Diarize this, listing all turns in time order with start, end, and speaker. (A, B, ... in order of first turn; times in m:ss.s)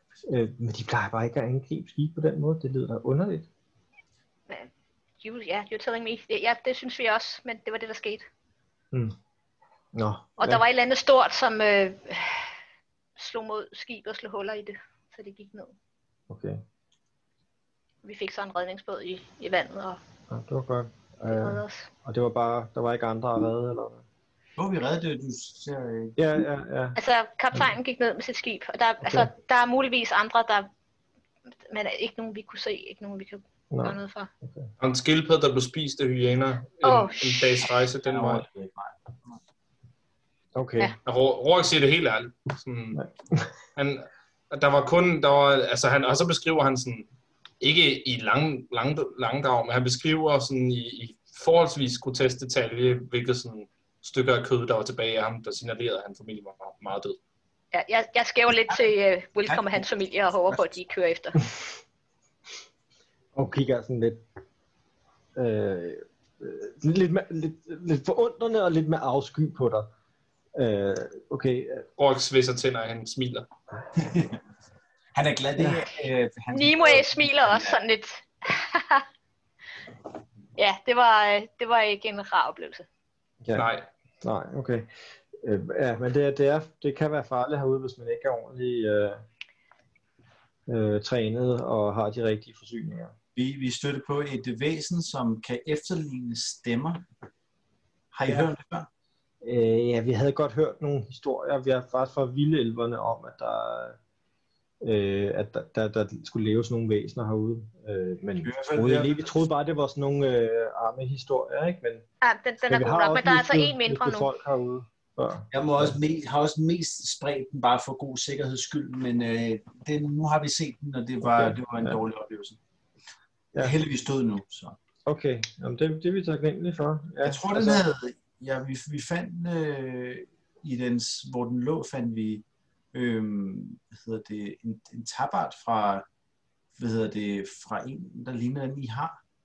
0:00.2-0:03.5 A
0:05.2-0:08.3 B
0:09.9-0:10.6 A
0:10.4-0:12.6 B
0:13.2-0:15.7 B
0:16.3-0:16.6 A
0:18.0-0:20.0 B
0:20.3-0:24.0 A
0:21.3-0:21.9 B
0:24.6-0:26.2 C
0:26.2-0:27.0 A
0:27.0-0:30.7 B
0:29.0-0:29.3 A
0:31.7-0:34.3 B
0:33.7-0:34.7 A
0:34.8-0:38.4 D
0:36.8-0:37.7 B
0:38.0-0:39.4 C
0:40.6-0:41.0 A
0:41.0-0:43.0 D
0:42.9-0:43.5 A
0:43.8-0:47.1 D
0:47.6-0:57.2 D
0:57.7-1:01.4 B
0:59.5-0:59.8 C
1:03.4-1:04.2 A
1:05.4-1:09.9 A
1:10.6-1:11.8 A
1:12.0-1:13.5 D
1:14.0-1:14.4 C
1:15.2-1:17.8 C
1:15.6-1:15.9 A
1:16.5-1:19.0 B
1:20.6-1:22.9 B
1:23.4-1:23.7 A
1:23.5-1:23.9 D
1:24.2-1:29.2 A
1:30.7-1:33.1 A
1:33.4-1:37.1 C
1:38.1-1:38.9 C
1:39.4-1:44.0 A
1:44.8-1:52.0 A
1:48.4-1:49.1 C
1:52.2-1:54.3 B
1:52.6-1:56.0 A
1:55.5-2:02.6 C
2:01.2-2:02.0 A
2:03.6-2:04.8 C
2:05.1-2:07.8 A
2:07.2-2:16.1 C
2:16.8-2:19.2 C